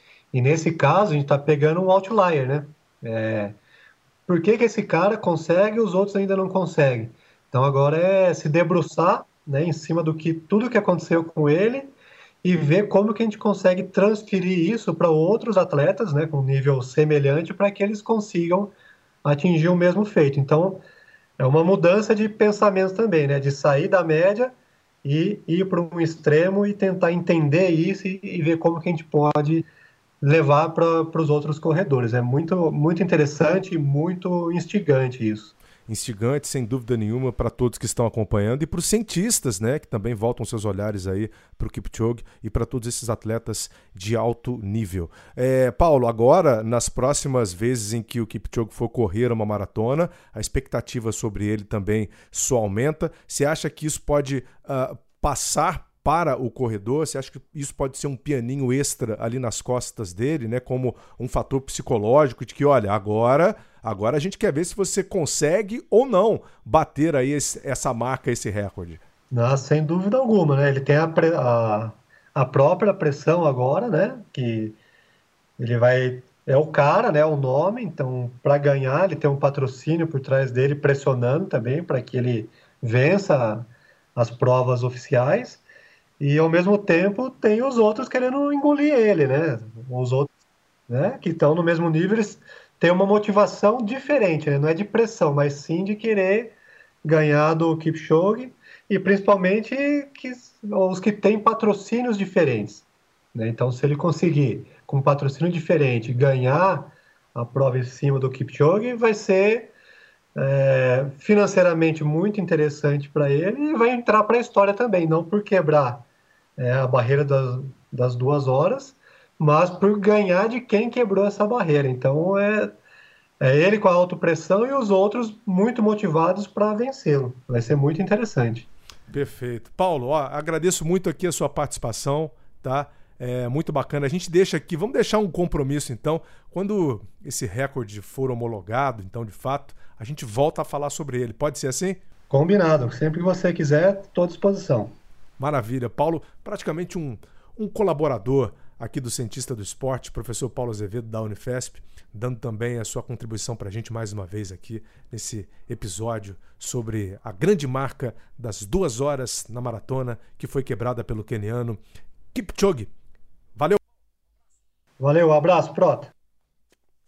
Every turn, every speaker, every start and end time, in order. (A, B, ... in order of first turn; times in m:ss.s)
0:00.3-0:03.6 A
0:04.3-0:11.9 A
0:12.4-0:18.7 A
0:19.2-0:20.8 A
0:21.4-0:29.7 A
0:30.2-0:35.6 A
0:35.9-1:09.0 B
1:09.3-1:14.8 A
1:15.6-1:25.6 A
1:26.2-1:30.3 A
1:30.9-1:49.7 A
1:50.4-2:02.8 A
2:03.4-2:08.7 A
2:09.1-2:22.0 B
2:22.3-2:25.0 A
2:25.4-2:41.8 B
2:42.3-2:42.9 B
2:45.0-2:46.1 A